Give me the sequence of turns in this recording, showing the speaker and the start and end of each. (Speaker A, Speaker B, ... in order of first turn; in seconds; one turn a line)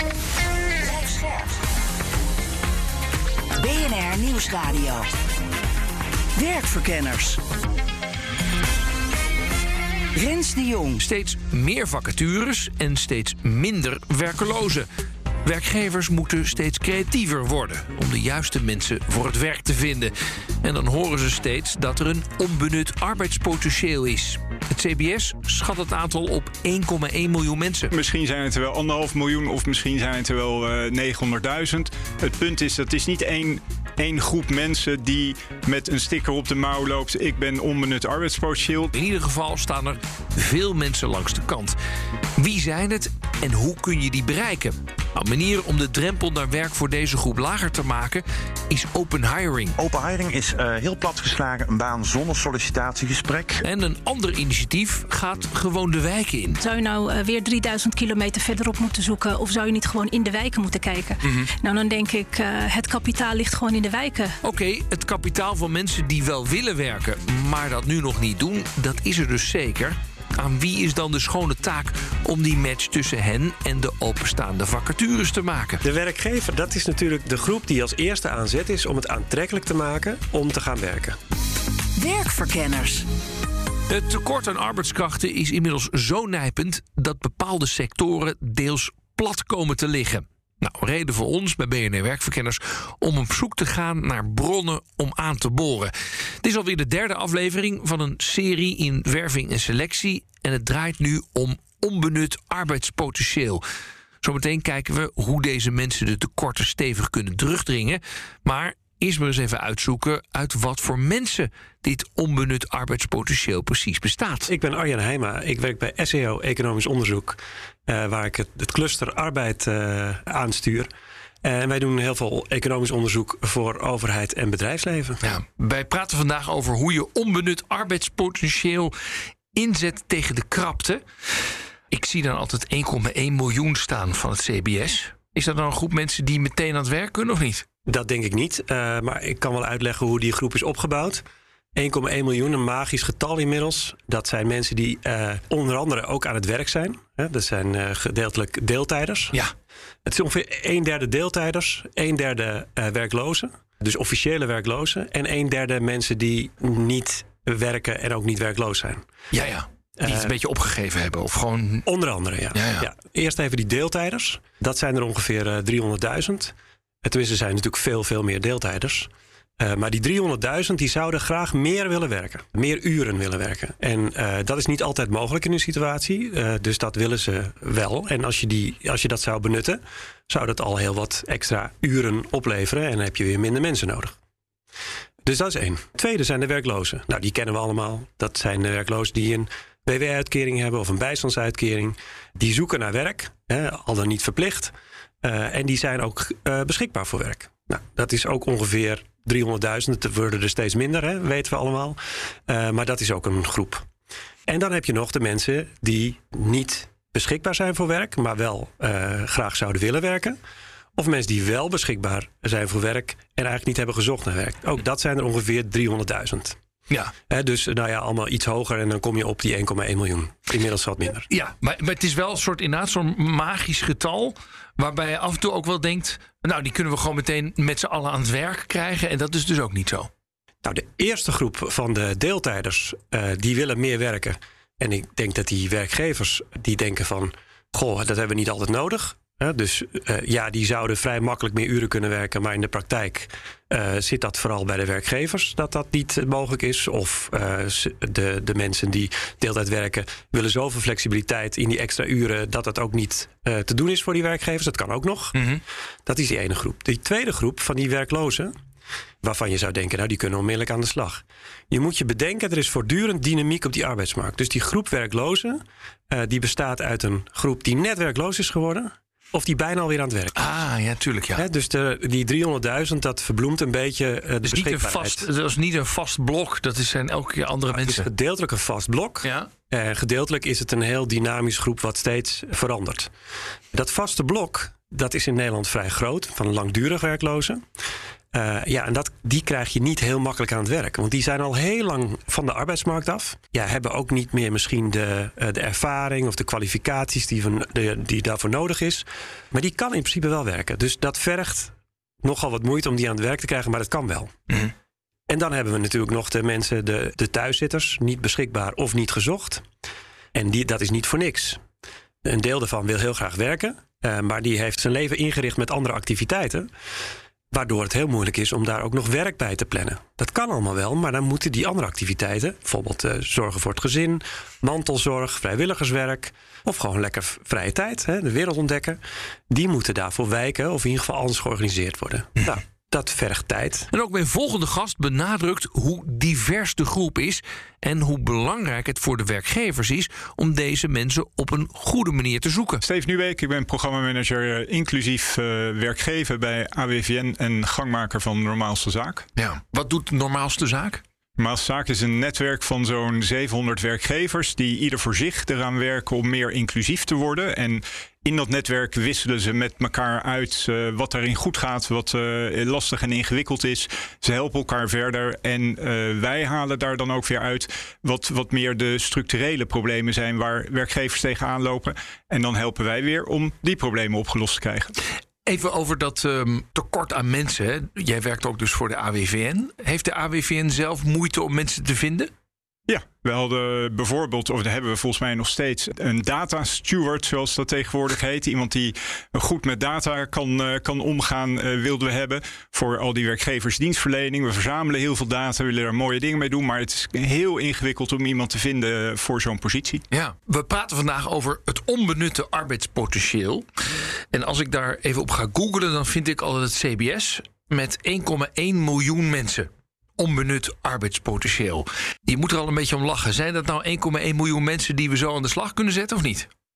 Speaker A: 0.8-1.6
Speaker A: 3.6-5.1
Speaker A: 6.4-7.4
Speaker A: 10.1-11.0
Speaker B: 11.0-14.9
Speaker B: 15.4-27.9
Speaker C: 27.9-38.9
Speaker B: 38.9-41.8
Speaker B: 42.4-49.8
Speaker D: 49.8-53.6
Speaker B: 53.6-56.6
Speaker E: 56.6-64.4
Speaker B: 61.2-61.5
Speaker B: 64.4-75.8
Speaker F: 75.8-81.2
Speaker A: 82.0-83.1
Speaker B: 83.9-103.6
Speaker B: 104.2-114.5
Speaker F: 114.5-120.9
Speaker F: 121.4-125.2
Speaker B: 125.2-128.9
Speaker B: 129.5-131.0
Speaker B: 131.9-137.7
Speaker F: 137.8-149.4
Speaker F: 150.0-159.1
Speaker B: 159.3-161.8
Speaker F: 160.0-160.3
Speaker F: 161.8-184.2
Speaker B: 162.5-162.9
Speaker F: 185.2-203.8
Speaker F: 204.5-210.4
Speaker F: 211.0-216.6
Speaker F: 217.3-221.3
Speaker B: 221.3-230.1
Speaker F: 230.6-255.4
Speaker B: 255.3-255.6
Speaker F: 256.1-258.5
Speaker F: 259.2-270.5
Speaker B: 270.4-271.5
Speaker F: 271.4-275.2
Speaker B: 274.4-278.1
Speaker F: 277.7-283.1
Speaker B: 279.2-279.5
Speaker F: 283.7-287.6
Speaker F: 288.3-304.4
Speaker F: 305.3-309.6
Speaker F: 310.3-311.6
Speaker F: 312.2-316.7
Speaker F: 317.5-333.9
Speaker B: 333.9-342.8
Speaker C: 342.8-349.3
Speaker B: 349.4-351.0
Speaker C: 351.4-374.9
Speaker B: 375.5-382.3
Speaker C: 382.9-400.0
Speaker B: 400.1-416.5